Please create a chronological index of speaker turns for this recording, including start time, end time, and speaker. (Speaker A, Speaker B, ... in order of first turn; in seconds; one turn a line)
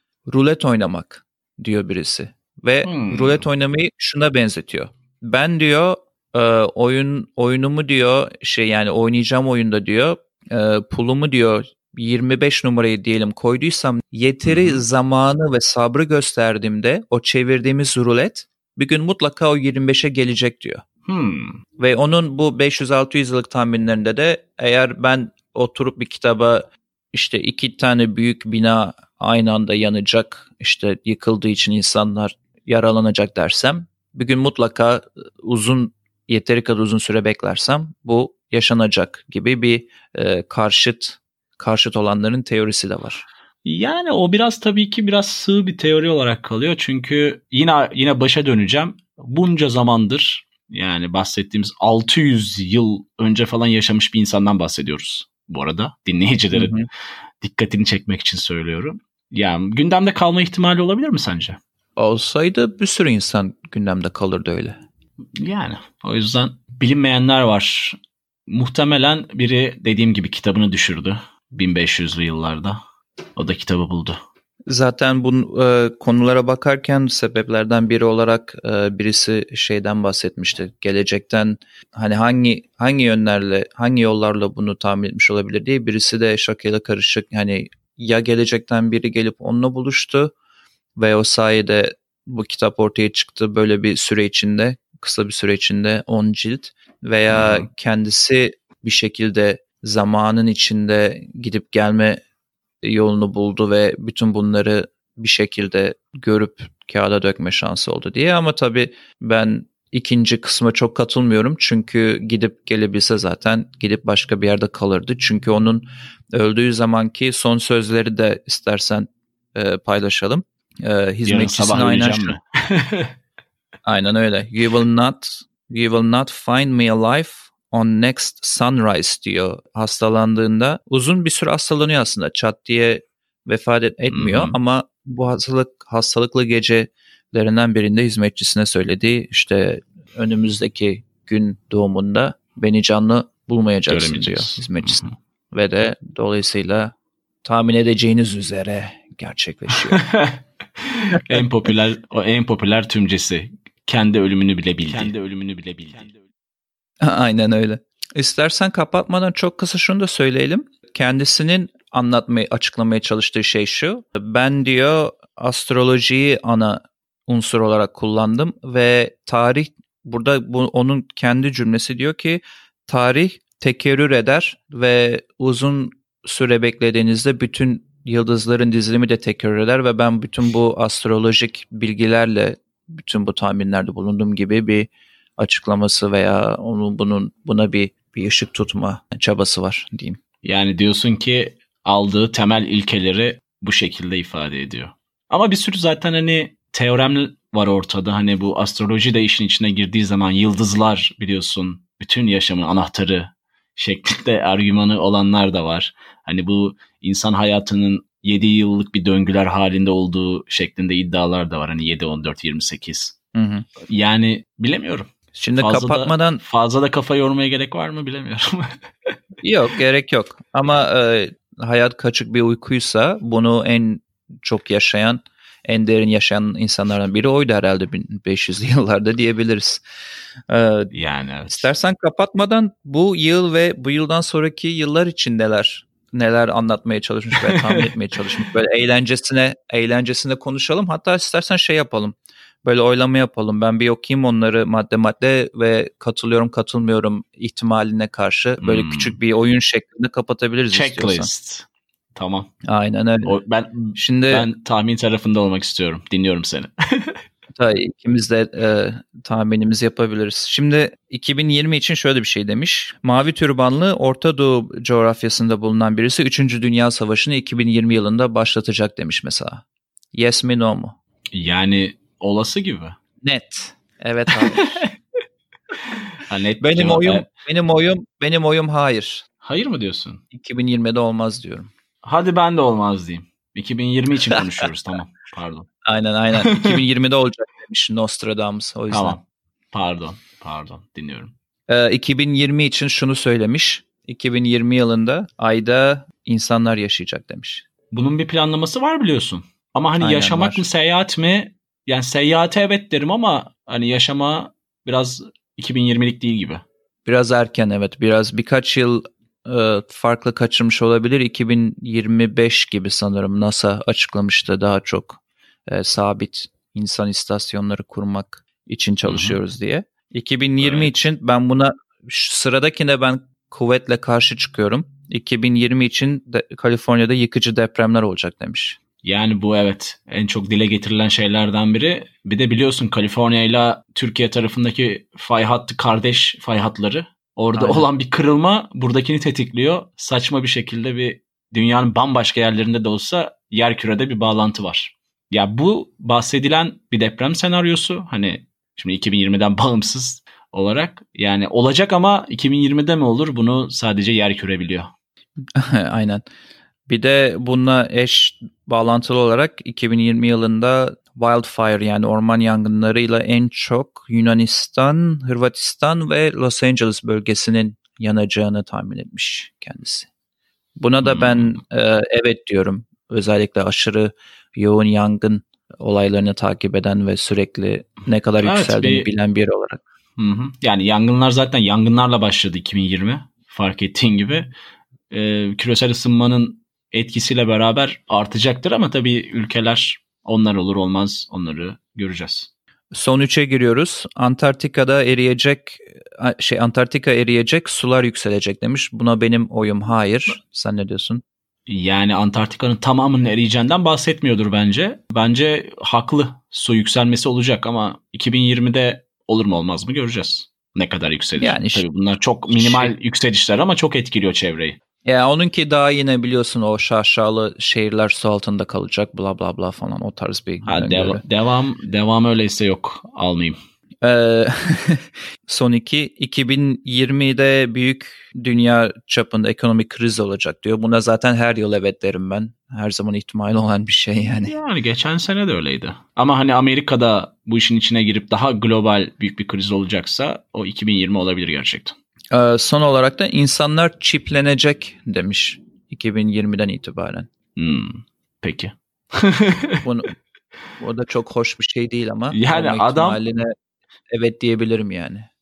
Speaker A: 0.3-20.8
Speaker B: 2.8-3.4
Speaker B: 14.4-14.8
Speaker B: 21.1-21.6
Speaker A: 21.8-43.2
Speaker B: 43.6-56.9
Speaker A: 56.5-56.9
Speaker B: 57.4-61.6
Speaker A: 62.0-64.8
Speaker B: 65.3-72.8
Speaker B: 73.4-74.2
Speaker A: 74.7-90.3
Speaker A: 91.0-102.2
Speaker B: 97.3-97.7
Speaker A: 102.8-122.4
Speaker B: 121.2-123.1
Speaker A: 123.9-150.1
Speaker B: 134.1-134.6
Speaker B: 143.9-145.1
Speaker B: 150.0-156.2
Speaker A: 157.0-190.2
Speaker B: 190.4-213.1
Speaker A: 213.3-213.7
Speaker B: 213.8-219.2
Speaker A: 215.3-216.4
Speaker A: 219.4-229.8
Speaker A: 230.5-230.9
Speaker B: 230.9-231.7
Speaker A: 231.5-251.3
Speaker B: 237.4-237.9
Speaker B: 248.6-249.2
Speaker B: 250.7-252.5
Speaker A: 252.7-253.4
Speaker B: 253.2-257.2
Speaker A: 253.9-254.5
Speaker A: 257.6-270.9
Speaker B: 271.3-273.0
Speaker A: 273.2-274.9
Speaker B: 276.2-277.3
Speaker A: 276.6-279.2
Speaker B: 279.4-280.2
Speaker A: 280.3-281.7
Speaker B: 282.0-285.7
Speaker A: 285.9-289.2
Speaker B: 286.3-286.8
Speaker B: 288.9-289.2
Speaker B: 289.7-291.3
Speaker A: 291.7-297.6
Speaker B: 297.9-306.6
Speaker A: 300.0-300.7
Speaker A: 307.1-328.8
Speaker B: 319.1-319.4
Speaker B: 320.6-320.9
Speaker B: 329.0-354.9
Speaker A: 337.6-337.9
Speaker A: 355.6-356.2
Speaker A: 356.9-370.1
Speaker A: 370.8-379.8
Speaker B: 371.0-371.5
Speaker B: 378.4-379.1
Speaker B: 380.2-384.5
Speaker B: 385.1-392.5
Speaker A: 392.9-401.2
Speaker B: 401.7-414.8
Speaker A: 411.4-411.8
Speaker A: 412.5-412.9
Speaker A: 415.1-421.2
Speaker B: 420.6-423.6
Speaker A: 424.0-434.6
Speaker B: 434.4-441.9
Speaker A: 442.3-447.3
Speaker B: 447.6-449.8
Speaker A: 449.8-450.1
Speaker A: 450.8-453.5
Speaker B: 452.3-453.2
Speaker A: 454.1-455.3